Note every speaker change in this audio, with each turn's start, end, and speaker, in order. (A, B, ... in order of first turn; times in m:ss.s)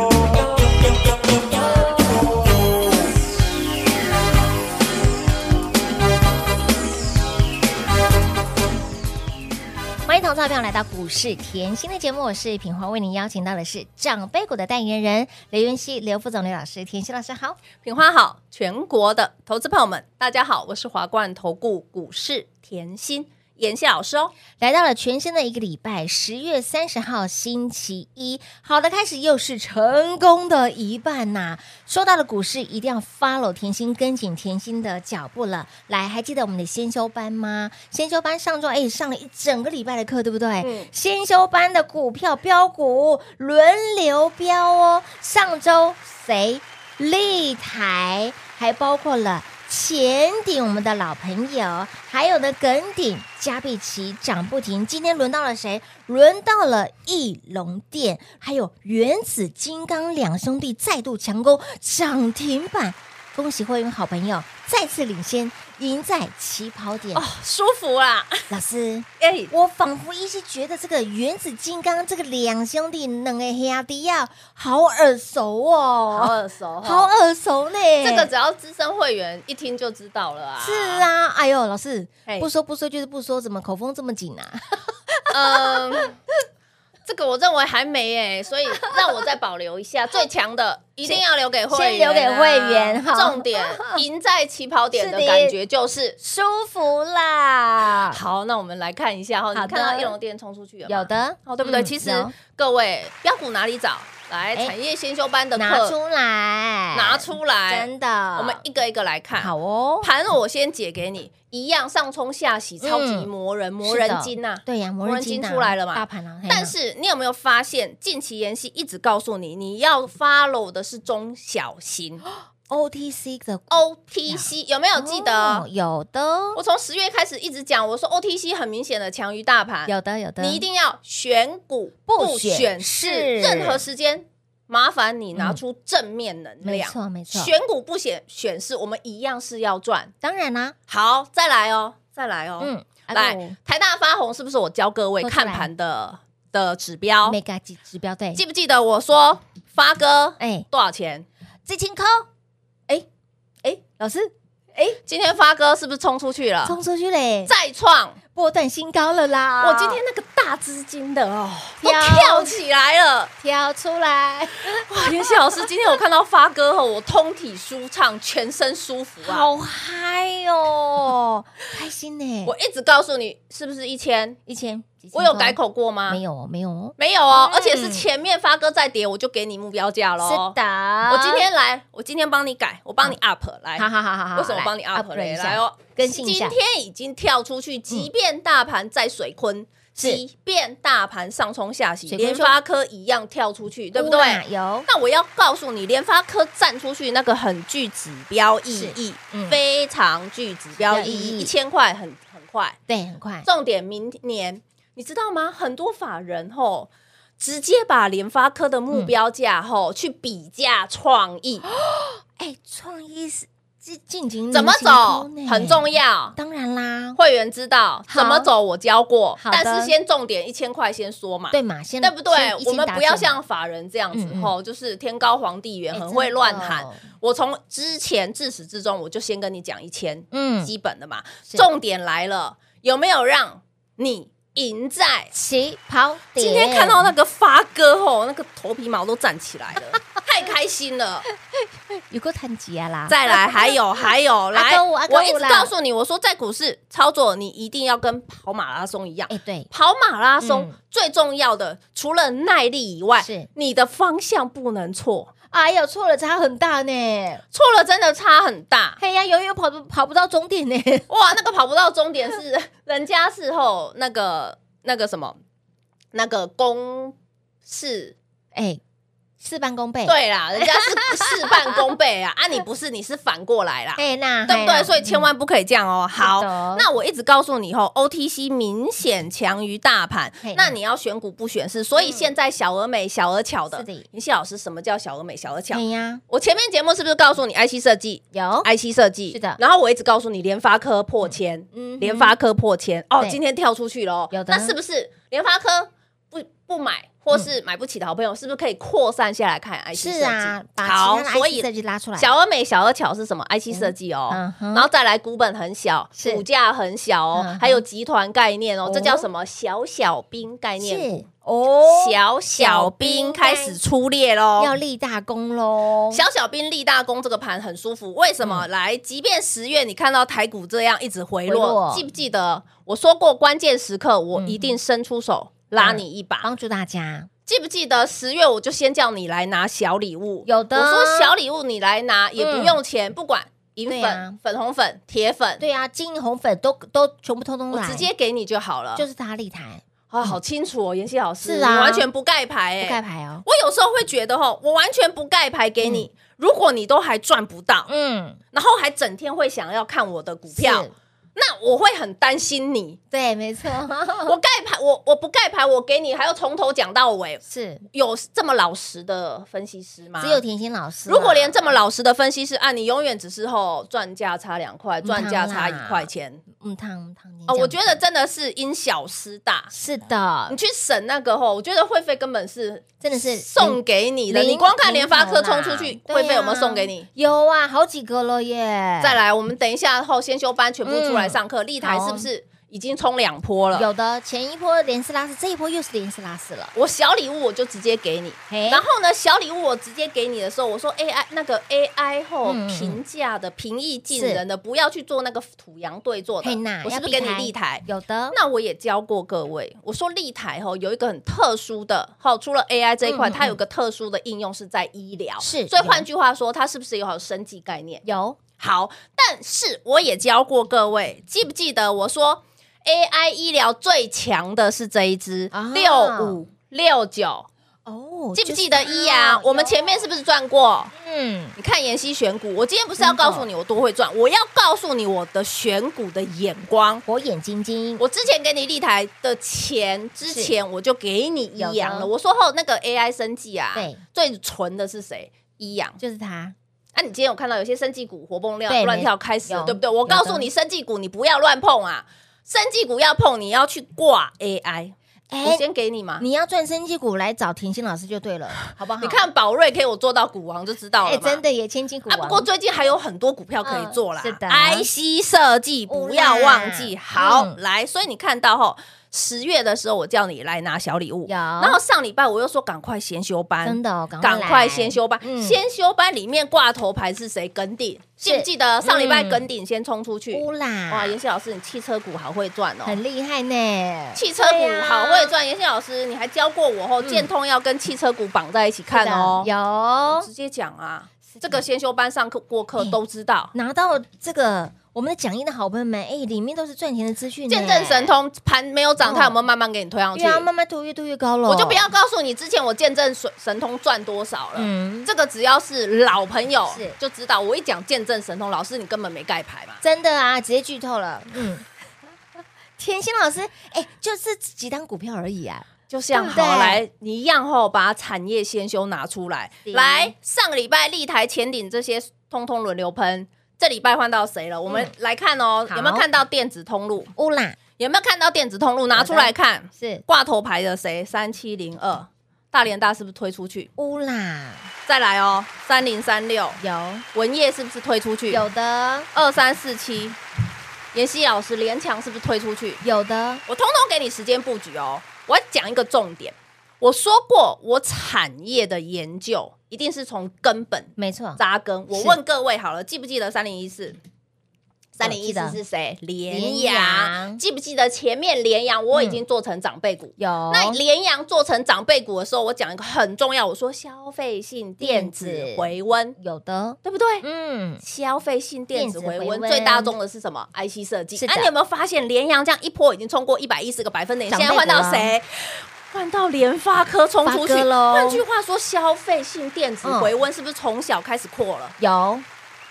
0:10.0-0:17.6 A
0:17.8-0:24.3 B
0:24.6-1:07.2 A
0:40.6-0:40.9 B
1:07.1-1:08.4 B
1:08.5-1:18.3 A
1:09.2-1:09.5 B
1:16.1-1:17.1 B
1:18.0-1:21.0 B
1:20.6-1:26.1 A
1:25.3-1:26.1 B
1:27.1-1:36.2 B
1:31.0-1:34.0 A
1:34.9-1:35.6 A
1:36.2-1:38.2 A
1:38.1-1:46.0 B
1:39.5-1:40.1 A
1:40.9-1:42.3 A
1:45.5-1:48.6 A
1:46.9-2:02.2 B
1:49.4-1:50.1 A
1:52.8-1:53.3 A
1:53.8-1:56.7 A
2:02.7-2:06.6 A
2:03.7-2:05.6 B
2:06.5-2:20.1 B
2:09.8-2:10.6 A
2:12.1-2:13.8 A
2:15.3-2:15.6 A
2:16.6-2:17.5 A
2:20.2-2:20.8 A
2:20.9-2:27.4 B
2:22.6-2:23.6 A
2:25.2-2:25.7 A
2:27.2-2:28.4 A
2:28.3-2:31.2 B
2:30.4-2:30.6 A
2:31.6-2:32.3 A
2:33.6-2:35.0 A
2:35.0-2:36.8 B
2:36.6-2:37.5 A
2:37.4-2:38.2 B
2:38.3-2:40.0 A
2:39.6-2:43.3 B
2:41.8-2:42.6 A
2:43.4-2:45.6 A
2:44.7-2:49.5 B
2:49.2-2:52.5 A
2:52.4-2:54.4 B
2:54.4-2:58.1 A
2:55.1-2:56.2 B
2:57.0-3:00.6 B
3:00.2-3:01.4 A
3:01.1-3:22.8 B
3:03.8-3:06.6 A
3:12.1-3:12.6 A
3:13.9-3:14.9 A
3:18.7-3:19.6 A
3:20.8-3:21.5 A
3:22.9-3:23.5 A
3:23.4-3:31.6 B
3:31.7-3:37.2 A
3:34.5-3:36.3 B
3:37.2-3:55.3 B
3:38.1-3:38.5 A
3:39.4-3:39.9 A
3:41.5-3:43.4 A
3:44.1-3:44.5 A
3:45.9-3:47.0 A
3:50.3-3:50.7 A
3:55.3-3:57.1 A
3:56.4-4:01.2 B
4:01.5-4:04.0 A
4:03.1-4:15.3 B
4:04.5-4:05.7 A
4:09.3-4:09.7 A
4:10.4-4:10.8 A
4:13.2-4:13.5 A
4:15.5-4:17.4 A
4:17.5-4:19.0 B
4:19.0-4:21.1 A
4:21.1-4:25.4 B
4:26.1-4:27.1 B
4:27.6-4:28.2 B
4:28.5-4:28.8 A
4:29.4-4:31.8 A
4:30.0-5:11.2 B
4:34.0-4:35.3 A
4:36.2-4:36.9 A
4:40.4-4:40.8 A
4:42.0-4:42.3 A
4:43.7-4:44.1 A
4:45.7-4:46.2 A
4:48.3-4:48.7 A
4:49.3-4:49.6 A
4:51.2-4:52.4 A
4:54.3-4:54.8 A
4:59.9-5:02.3 A
5:03.7-5:04.9 A
5:06.2-5:06.4 A
5:07.3-5:07.8 A
5:08.8-5:09.3 A
5:10.8-5:13.8 A
5:11.8-5:14.7 B
5:14.6-5:16.2 A
5:16.1-5:26.5 B
5:18.4-5:18.7 A
5:21.5-5:22.0 A
5:24.3-5:24.7 A
5:25.8-5:27.3 A
5:27.4-5:35.6 B
5:30.4-5:31.3 A
5:32.4-5:32.8 A
5:33.9-5:34.4 A
5:35.6-5:38.1 A
5:37.7-5:39.0 B
5:39.0-5:40.4 A
5:40.1-5:47.9 B
5:41.4-5:42.1 A
5:42.8-5:43.4 A
5:45.8-5:46.1 A
5:47.9-5:48.4 A
5:48.5-5:53.0 B
5:50.5-5:50.9 A
5:53.1-5:54.4 A
5:54.2-5:57.4 B
5:57.5-5:57.8 A
5:57.9-6:00.4 B
6:00.2-6:01.6 A
6:01.1-6:06.4 B
6:05.0-6:08.0 A
6:07.5-6:09.7 B
6:09.7-6:10.6 A
6:10.5-6:17.1 B
6:13.0-6:19.2 A
6:19.0-6:23.9 B
6:20.8-6:22.3 A
6:23.7-6:26.7 A
6:26.7-6:48.0 B
6:28.5-6:28.8 A
6:32.4-6:33.0 A
6:34.1-6:34.4 A
6:36.4-6:38.4 A
6:43.0-6:43.6 A
6:45.4-6:46.0 A
6:48.0-6:48.4 A
6:48.6-6:57.5 B
6:55.5-6:56.4 A
6:57.8-7:00.0 A
6:58.4-7:00.9 B
7:00.9-7:01.6 A
7:01.6-7:07.0 B
7:03.0-7:03.5 A
7:07.0-7:08.0 A
7:08.0-7:16.0 B
7:10.2-7:10.5 A
7:11.6-7:12.1 A
7:13.7-7:14.0 A
7:16.0-7:16.5 A
7:16.9-7:26.2 B
7:18.7-7:20.5 A
7:25.3-7:25.6 A
7:26.2-7:29.2 A
7:29.0-7:31.4 B
7:31.0-7:32.5 A
7:32.1-7:53.0 B
7:33.6-7:34.9 A
7:35.9-7:37.6 A
7:41.3-7:41.8 A
7:43.6-7:45.6 A
7:48.2-7:49.4 A
7:50.3-7:51.2 A
7:52.8-7:55.3 A
7:54.1-7:59.5 B
7:57.0-7:57.3 A
7:58.9-8:00.3 A
8:00.1-8:03.5 B
8:01.3-8:01.6 A
8:03.5-8:08.1 A
8:07.5-8:10.5 B
8:09.0-8:09.4 A
8:10.1-8:11.8 A
8:11.5-8:19.8 B
8:14.5-8:15.1 A
8:16.7-8:17.0 A
8:19.8-8:21.6 A
8:22.8-8:26.8 A
8:25.9-8:37.1 B
8:29.6-8:30.1 A
8:35.7-8:36.0 A
8:37.2-8:37.6 A
8:37.8-8:43.7 B
8:38.9-8:40.0 A
8:43.8-8:44.7 A
8:44.9-8:46.6 B
8:46.6-8:47.0 A
8:47.1-8:48.4 B
8:48.3-8:49.1 A
8:49.1-8:50.2 B
8:50.9-8:52.8 B
8:52.8-8:53.4 A
8:53.5-9:04.0 B
9:01.0-9:02.2 A
9:05.0-9:16.2 B
9:05.0-9:05.6 A
9:06.3-9:07.4 A
9:08.9-9:09.2 A
9:10.2-9:10.8 A
9:14.8-9:17.8 A
9:16.8-9:17.2 B
9:17.8-9:31.8 B
9:18.7-9:19.9 A
9:21.2-9:21.5 A
9:24.3-9:25.1 A
9:27.2-9:28.2 A
9:29.8-9:30.1 A
9:31.8-9:32.2 A